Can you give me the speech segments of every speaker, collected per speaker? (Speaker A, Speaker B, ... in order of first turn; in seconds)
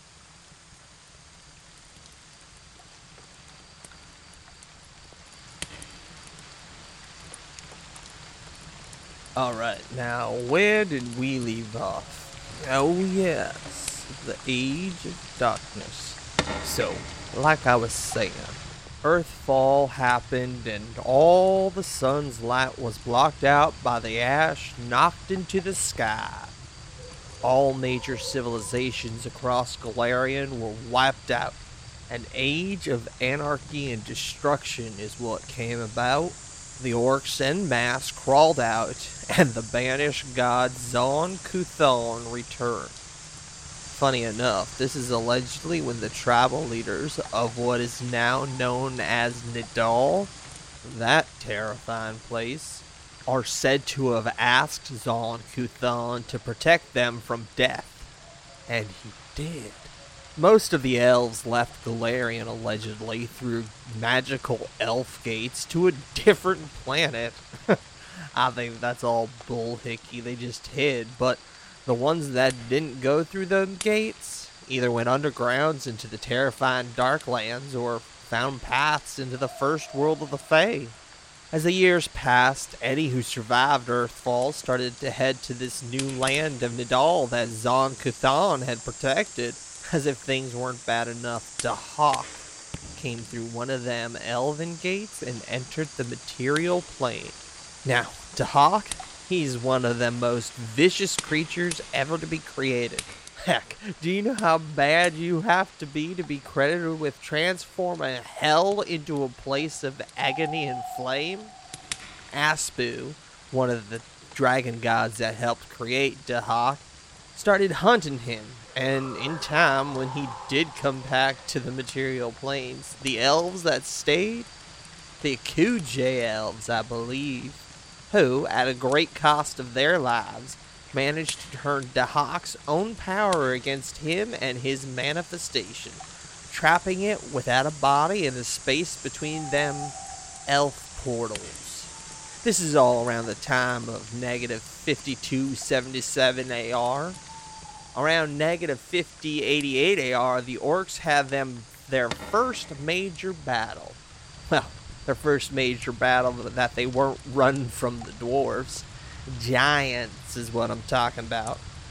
Speaker A: 9.3-26.5, 27.4-43.0, 43.8-50.3, 50.8-58.1, 58.7-67.8, 68.3-81.0, 81.5-92.4, 92.9-111.5, 112.3-116.8, 117.3-124.5, 125.2-139.9, 140.5-141.9, 142.4-147.2, 147.9-161.6